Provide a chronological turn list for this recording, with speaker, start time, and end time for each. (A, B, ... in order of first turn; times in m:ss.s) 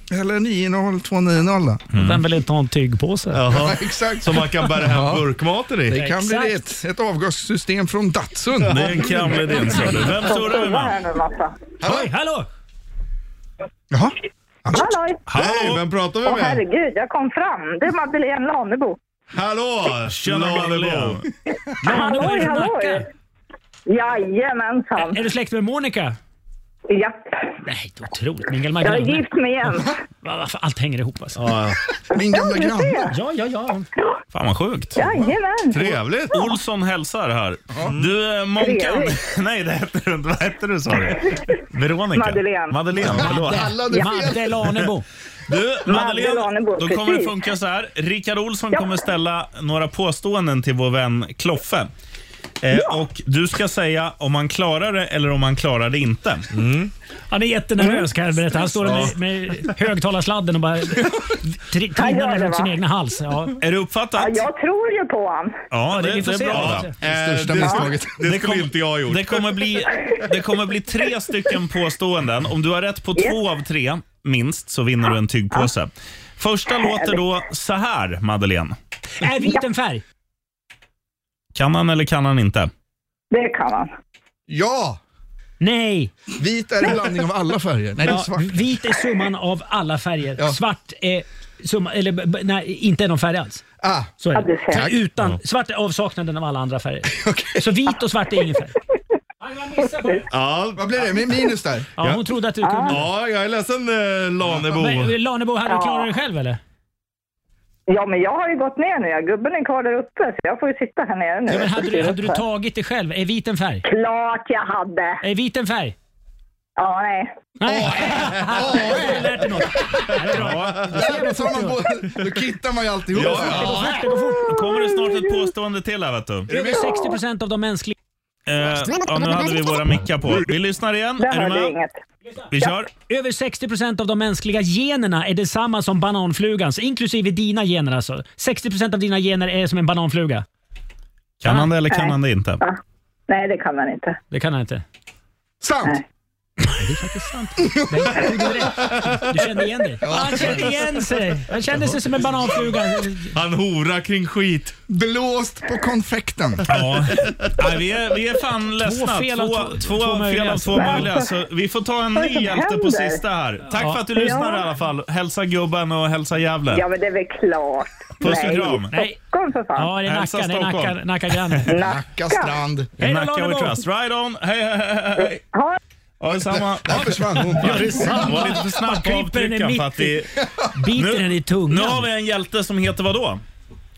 0:00.1-0:01.8 A
0:01.9-0:03.4 B
0:01.9-0:02.2 C
0:03.3-0:06.0 D
0:03.5-0:05.2 A
0:05.9-0:09.0 A
0:05.9-0:06.6 B
0:08.6-0:10.0 D
0:08.7-0:11.0 C
0:10.1-0:11.5 E
0:11.8-0:12.1 A
0:11.8-0:12.5 B
0:14.6-0:14.9 A
0:14.7-0:15.2 E
0:15.3-0:15.8 C
0:15.3-0:16.6 D
0:16.2-0:19.0 E
0:19.3-0:21.2 D
0:20.1-0:21.2 C
0:21.8-0:23.0 B
0:21.8-0:23.0 E
0:23.9-0:25.3 E
0:25.0-0:26.2 B
0:26.9-0:27.4 E
0:27.6-0:29.2 B
0:28.8-0:29.9 E
0:30.2-0:31.4 B
0:31.3-0:31.8 D
0:32.1-0:33.1 A
0:32.2-0:33.2 E
0:33.1-0:33.8 B
0:34.3-0:35.0 C
0:34.9-0:36.0 E
0:35.7-0:36.4 D
0:36.3-0:43.7 C
0:37.8-0:38.1 D
0:38.5-0:39.2 E
0:42.1-0:43.2 E
0:43.1-0:45.0 B
0:43.4-0:44.6 A
0:43.9-0:44.3 E
0:45.5-0:51.9 C
0:45.8-0:47.5 E
0:48.7-0:49.1 E
0:52.6-0:56.4 C
0:56.5-0:56.9 D
0:57.3-1:03.6 B
0:57.8-0:58.1 E
0:58.8-0:59.1 D
1:01.9-1:02.8 E
1:03.6-1:04.5 C
1:04.2-1:05.6 E
1:05.7-1:06.9 C
1:05.8-1:06.9 B
1:06.5-1:09.6 D
1:07.0-1:08.2 A
1:07.5-1:07.8 E
1:08.2-1:18.7 C
1:16.7-1:17.3 E
1:19.2-1:20.0 B
1:21.5-1:22.7 C
1:23.3-1:23.9 E
1:24.5-1:25.0 A
1:25.6-1:26.1 B
1:26.4-1:28.6 A
1:28.0-1:33.6 B
1:33.8-1:34.1 A
1:34.2-1:38.8 B
1:34.3-1:35.0 E
1:37.1-1:37.6 A
1:39.4-1:40.3 B
1:39.8-1:40.2 E
1:40.3-1:41.3 D
1:40.8-1:41.9 A
1:42.0-1:43.1 B
1:42.6-1:43.0 E
1:42.9-1:45.2 D
1:44.6-1:46.6 B
1:45.6-1:46.1 E
1:47.9-1:52.4 E
1:51.5-1:53.8 B
1:53.8-1:55.2 E
1:55.2-1:55.9 B
1:56.8-1:57.3 E
1:57.6-2:01.8 B
1:57.6-1:59.6 D
2:00.1-2:00.8 D
2:00.4-2:00.7 C
2:00.9-2:03.7 A
2:03.1-2:04.0 D
2:03.2-2:04.6 B
2:04.4-2:06.5 C
2:04.6-2:05.4 E
2:06.5-2:07.9 B
2:06.7-2:07.1 E
2:08.5-2:11.7 C
2:11.2-2:12.0 E
2:12.2-2:20.4 B
2:12.5-2:12.9 C
2:21.4-2:22.6 C
2:21.9-2:22.8 E
2:23.3-2:24.2 E
2:24.3-2:24.8 B
2:25.6-2:26.0 A
2:26.6-2:33.3 B
2:30.0-2:31.0 A
2:33.3-2:34.7 D
2:34.9-2:36.6 A
2:36.7-2:46.8 C
2:38.8-2:41.1 B
2:40.7-2:41.3 E
2:42.1-2:43.2 E
2:43.7-2:44.2 B
2:44.2-2:44.7 E
2:46.7-2:50.0 E
2:48.2-2:48.9 C
2:48.9-2:49.2 B
2:49.8-2:51.8 B
2:50.0-2:51.6 C
2:51.7-2:52.6 E
2:51.8-2:52.9 A
2:53.0-2:53.8 B
2:53.0-2:55.4 C
2:55.2-2:55.8 E
2:56.2-3:00.3 C
2:56.8-2:58.5 A
2:57.0-3:02.1 B
3:00.9-3:03.4 C